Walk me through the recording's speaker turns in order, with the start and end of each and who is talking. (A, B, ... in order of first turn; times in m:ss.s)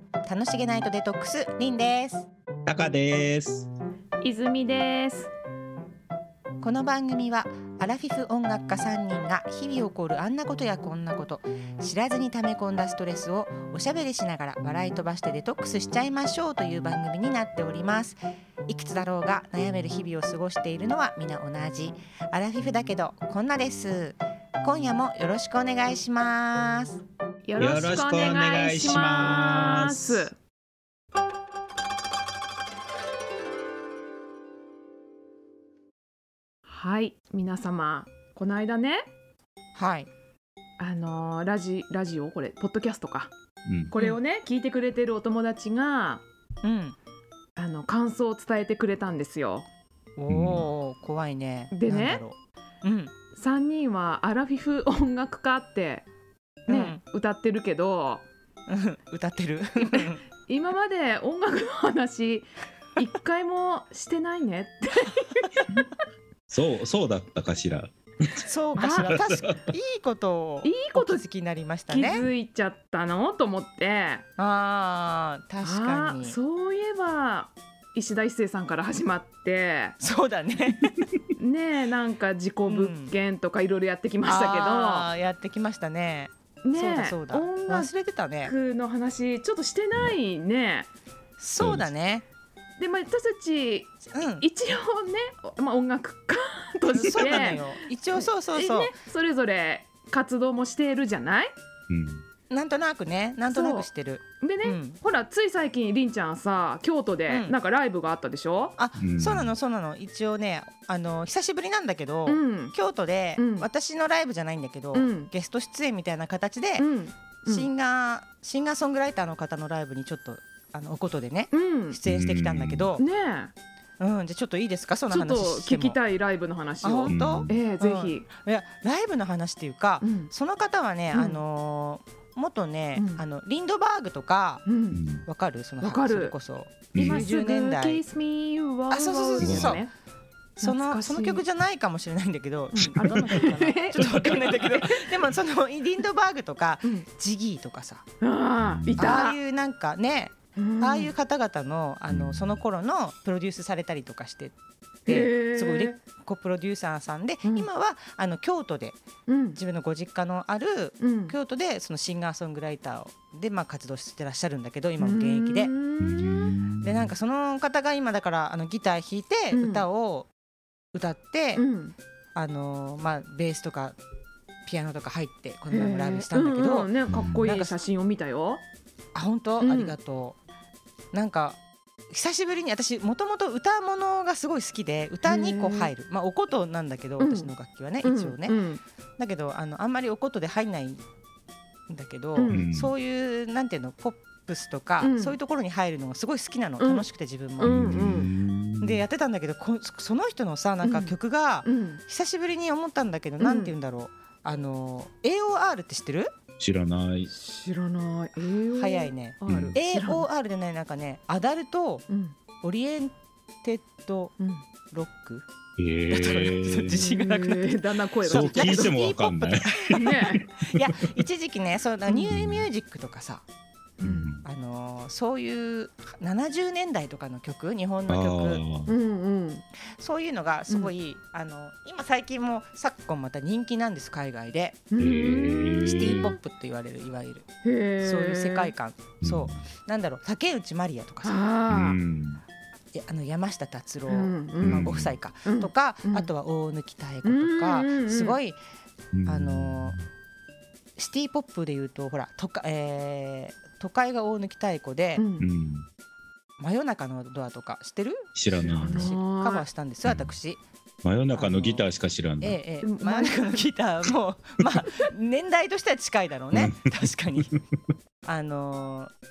0:00.2-0:02.3 A
0:02.7-0:03.7 B
0:04.2-0:05.3 C
0:06.6-0:27.0 A
0:27.4-0:30.3 C
0:27.6-0:30.2 B
0:36.7-0:39.0 C
0:39.8-0:40.1 A
0:40.8-0:43.3 C
0:43.7-0:43.9 B
0:43.9-0:46.2 C
0:46.6-0:47.0 A
0:47.6-0:49.7 C
0:50.2-0:53.1 A
0:50.3-0:50.7 B
0:51.7-0:52.2 C
0:53.4-0:56.1 C
0:56.7-0:58.2 C
0:56.7-0:57.0 A
0:58.7-1:00.2 A
0:59.8-1:05.6 C
1:06.5-1:09.7 B
1:08.5-1:12.3 A
1:08.8-1:09.2 C
1:10.6-1:11.2 C
1:11.9-1:14.2 C
1:14.4-1:16.4 A
1:15.6-1:20.0 C
1:20.0-1:21.1 A
1:21.4-1:25.1 C
1:22.7-1:23.1 A
1:24.3-1:28.5 A
1:26.6-1:27.9 C
1:28.4-1:30.9 C
1:31.4-1:32.2 A
1:31.6-1:31.9 B
1:32.8-1:33.9 C
1:34.1-1:34.4 A
1:34.4-1:41.5 C
1:37.0-1:38.9 A
1:41.9-1:42.2 B
1:42.5-1:45.0 A
1:43.5-1:43.9 C
1:44.4-1:48.8 C
1:47.3-1:47.6 A
1:48.8-1:56.9 A
1:49.0-1:49.5 B
1:52.3-1:52.8 C
1:53.4-1:53.7 C
1:54.9-1:55.3 C
1:56.8-1:57.7 C
1:57.5-2:03.0 A
2:01.5-2:02.0 C
2:02.0-2:02.9 B
2:03.0-2:03.5 C
2:04.0-2:06.0 A
2:05.1-2:08.3 C
2:06.8-2:14.6 A
2:07.1-2:07.6 B
2:10.0-2:10.3 C
2:11.1-2:11.4 C
2:13.0-2:13.2 C
2:14.7-2:15.0 C
2:14.9-2:15.3 B
2:15.3-2:18.0 A
2:15.8-2:16.4 C
2:16.9-2:17.3 B
2:17.0-2:19.9 C
2:18.9-2:19.8 A
2:19.4-2:19.8 B
2:20.6-2:28.0 A
2:20.6-2:21.4 C
2:22.7-2:25.0 C
2:24.1-2:24.9 B
2:28.2-2:29.4 C
2:28.6-2:29.2 B
2:29.0-2:34.5 A
2:30.6-2:31.1 C
2:32.1-2:32.6 B
2:35.1-2:36.0 C
2:35.1-2:39.0 A
2:37.4-2:37.7 C
2:39.3-2:39.6 C
2:39.6-2:45.7 A
2:41.0-2:41.4 C
2:45.0-2:46.5 C
2:46.0-2:47.1 B
2:46.8-2:50.3 A
2:49.5-2:49.8 C
2:50.9-2:51.6 A
2:51.6-2:52.0 C
2:52.4-2:54.0 A
2:54.7-2:57.8 A
2:55.7-2:58.6 C
2:57.1-2:57.5 B
2:59.1-3:00.4 A
2:59.6-3:00.0 C
3:01.1-3:01.6 A
3:02.1-3:08.6 A
3:05.2-3:05.9 C
3:07.2-3:07.5 C
3:08.0-3:08.8 C
3:09.2-3:11.0 A
3:11.9-3:18.1 A
3:12.4-3:12.6 C
3:12.5-3:13.0 B
3:15.0-3:15.4 C
3:16.8-3:18.3 C
3:17.6-3:19.1 B
3:18.8-3:26.3 A
3:20.8-3:22.0 C
3:23.4-3:23.8 C
3:26.6-3:27.3 B
3:27.3-3:30.3 C
3:28.7-3:32.1 A
3:29.5-3:29.8 B
3:32.1-3:32.4 C
3:32.6-3:34.4 A
3:34.4-3:34.6 C
3:34.9-3:35.5 A
3:35.8-3:37.1 B
3:36.1-3:43.4 A
3:36.6-3:39.0 C
3:38.2-3:41.2 B
3:39.9-3:40.5 C
3:42.1-3:42.4 C
3:42.3-3:42.7 B
3:44.0-3:44.4 B
3:44.0-3:44.4 C
3:44.4-3:48.6 A
3:48.1-3:48.9 B
3:48.9-3:49.6 C
3:50.0-3:54.9 A
3:54.9-3:56.4 C
3:55.0-3:56.4 B
3:55.8-3:57.5 A
3:57.6-3:58.7 C
3:58.0-4:01.4 A
3:59.2-3:59.6 B
4:01.2-4:02.0 C
4:01.7-4:02.4 B
4:02.9-4:08.6 A
4:04.1-4:06.3 C
4:04.6-4:05.2 B
4:07.2-4:08.4 C
4:09.1-4:10.0 B
4:09.3-4:10.0 A
4:11.0-4:15.3 A
4:15.2-4:15.5 C
4:15.4-4:15.9 B
4:16.6-4:20.6 A
4:18.4-4:19.1 B
4:18.6-4:19.7 C
4:20.0-4:20.4 B
4:21.0-4:22.6 B
4:21.3-4:21.8 A
4:22.4-4:27.5 A
4:22.8-4:23.6 C
4:26.5-4:27.6 B
4:28.2-4:29.1 A